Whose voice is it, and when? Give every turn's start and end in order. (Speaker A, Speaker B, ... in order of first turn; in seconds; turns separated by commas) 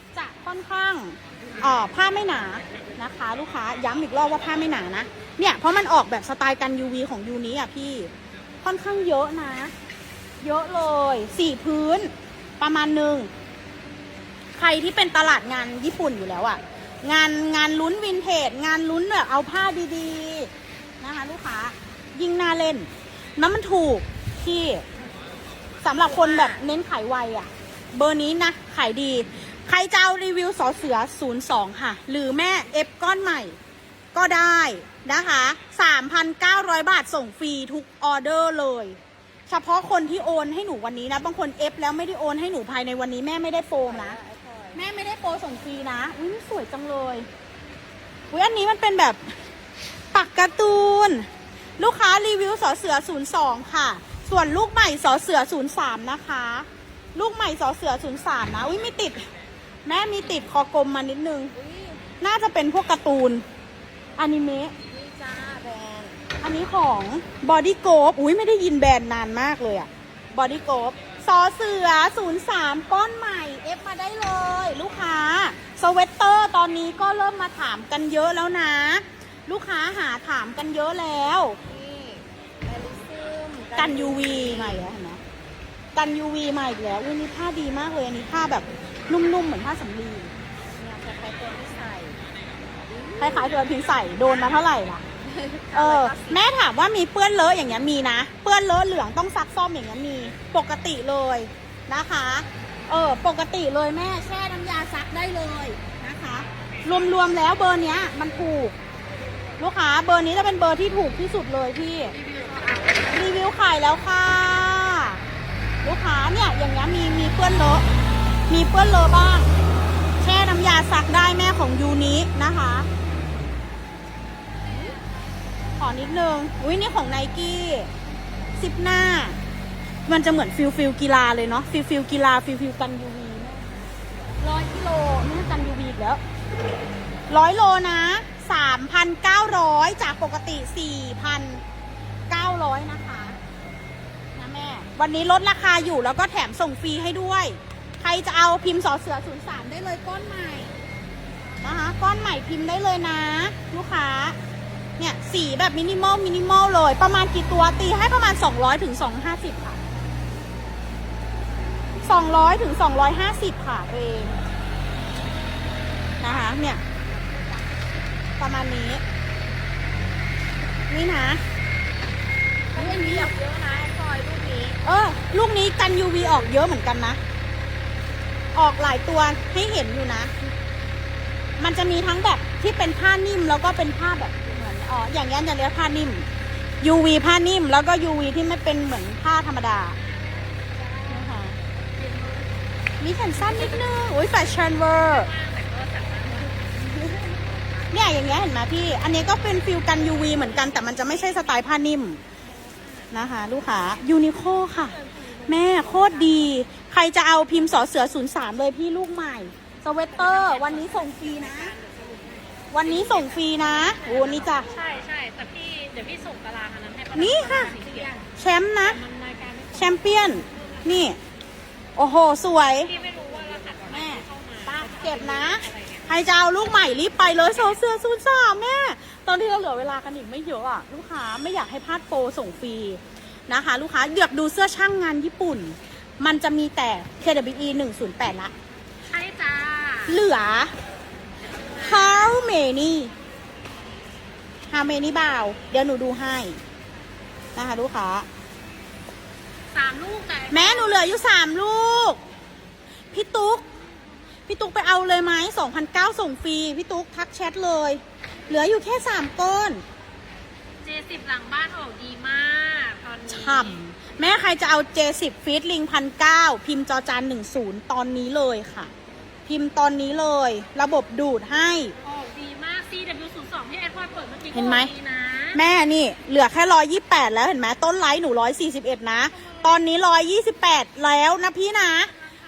Speaker A: 0.1-8.1, Speaker A: 8.6-9.7, Speaker A: 10.4-13.3, Speaker A: 14.6-24.8, Speaker A: 25.8-33.6, Speaker B: 26.3-26.5, Speaker A: 34.1-44.2, Speaker B: 43.8-44.8, Speaker A: 44.7-47.3, Speaker A: 48.3-49.2, Speaker A: 50.1-59.2, Speaker A: 59.8-61.5, Speaker B: 61.5-62.0, Speaker A: 62.2-63.4, Speaker A: 64.2-64.7, Speaker B: 64.9-66.2, Speaker A: 66.4-81.6, Speaker B: 81.6-84.8, Speaker A: 83.8-85.2, Speaker A: 85.9-90.3, Speaker B: 90.7-92.2, Speaker B: 92.8-93.5, Speaker A: 93.2-95.0, Speaker B: 95.2-96.4, Speaker A: 95.7-108.8, Speaker A: 109.6-112.2, Speaker B: 112.2-113.2, Speaker A: 113.1-115.2, Speaker A: 115.8-117.8, Speaker A: 118.5-119.5, Speaker A: 120.2-122.9, Speaker B: 124.7-125.0, Speaker A: 125.8-127.9, Speaker A: 128.6-129.4, Speaker A: 130.1-133.9, Speaker A: 134.4-136.2, Speaker A: 137.3-141.6, Speaker A: 142.3-143.4, Speaker A: 144.3-150.7, Speaker A: 151.6-154.4, Speaker A: 155.0-159.8, Speaker A: 162.0-164.4, Speaker A: 166.2-166.8, Speaker B: 166.2-167.9, Speaker A: 168.4-169.0, Speaker A: 170.9-171.4, Speaker B: 172.7-174.8, Speaker A: 172.7-173.3, Speaker A: 174.8-177.2, Speaker A: 178.5-180.3, Speaker A: 181.6-186.3, Speaker A: 186.8-190.0, Speaker C: 190.2-190.7, Speaker A: 191.1-191.6, Speaker C: 191.9-192.5, Speaker A: 193.0-195.3, Speaker C: 193.4-193.9, Speaker C: 194.9-196.7, Speaker B: 196.5-197.8, Speaker A: 197.9-202.2, Speaker B: 202.7-203.1, Speaker A: 203.1-211.8, Speaker B: 205.1-205.5, Speaker B: 210.2-212.8, Speaker A: 212.7-214.7, Speaker C: 212.8-213.2, Speaker B: 213.9-214.6, Speaker C: 214.6-218.2, Speaker A: 217.1-217.8, Speaker B: 217.7-218.2, Speaker A: 218.3-219.0, Speaker C: 218.8-220.7, Speaker A: 219.7-221.2, Speaker A: 221.9-222.9, Speaker C: 222.8-226.1, Speaker B: 223.1-223.8, Speaker A: 223.9-238.5, Speaker C: 239.1-240.2, Speaker A: 240.0-240.7, Speaker C: 241.5-242.3, Speaker A: 241.7-243.1, Speaker A: 244.7-246.6, Speaker A: 247.6-248.3, Speaker C: 249.7-251.1, Speaker A: 250.5-252.2, Speaker A: 253.1-253.7, Speaker A: 254.5-259.8, Speaker C: 260.8-263.8, Speaker A: 263.3-268.9, Speaker A: 269.4-271.9, Speaker C: 272.0-275.6, Speaker A: 274.5-274.9, Speaker A: 275.5-282.1